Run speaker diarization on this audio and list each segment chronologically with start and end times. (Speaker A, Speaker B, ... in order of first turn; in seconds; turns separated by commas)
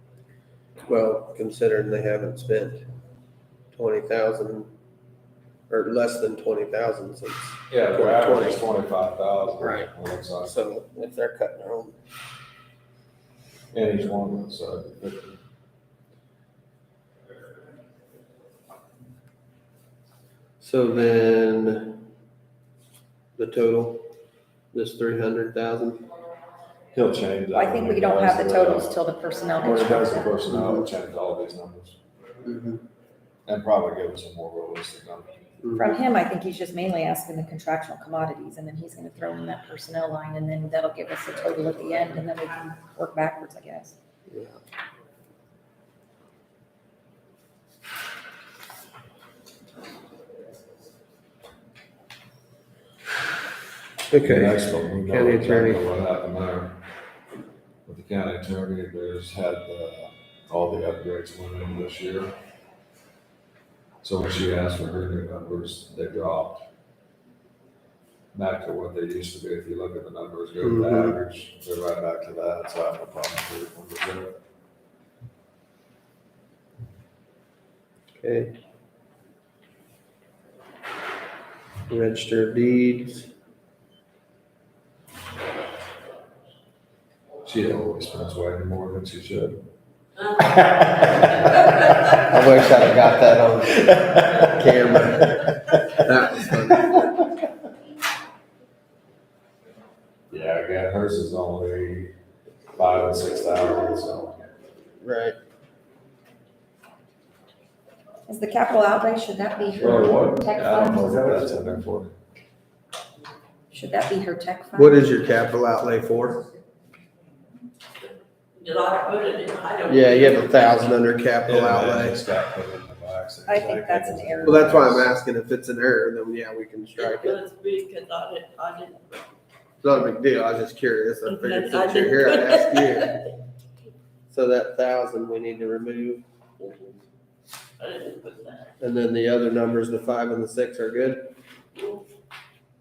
Speaker A: 0.9-2.8, Speaker A: 3.7-4.7, Speaker A: 5.7-8.7, Speaker B: 7.7-10.5, Speaker A: 9.6-12.0, Speaker B: 13.7-15.4, Speaker A: 20.6-22.1, Speaker A: 23.4-24.1, Speaker A: 24.7-26.1, Speaker B: 26.9-29.0, Speaker C: 27.5-30.3, Speaker B: 29.6-32.0, Speaker A: 30.5-30.9, Speaker A: 32.4-32.8, Speaker B: 33.5-35.4, Speaker A: 35.6-35.9, Speaker C: 35.8-44.0, Speaker A: 44.3-44.6, Speaker A: 54.1-55.9, Speaker B: 54.2-56.8, Speaker B: 57.9-62.3, Speaker B: 64.0-66.7, Speaker B: 68.3-74.4, Speaker A: 70.6-71.2, Speaker A: 78.2-78.5, Speaker A: 81.9-83.3, Speaker B: 87.4-89.6, Speaker B: 90.4-92.2, Speaker A: 92.3-96.9, Speaker B: 93.9-94.5, Speaker B: 100.3-102.1, Speaker B: 102.7-104.5, Speaker A: 105.0-105.4, Speaker C: 108.3-111.4, Speaker B: 109.8-112.2, Speaker C: 113.7-115.1, Speaker A: 114.7-116.4, Speaker D: 118.5-120.9, Speaker A: 119.9-122.2, Speaker B: 121.4-125.1, Speaker C: 123.5-124.8, Speaker A: 124.4-127.4, Speaker D: 127.0-129.3, Speaker A: 129.8-133.2, Speaker D: 131.2-133.2, Speaker A: 134.3-136.2, Speaker D: 137.8-138.7, Speaker A: 138.8-141.3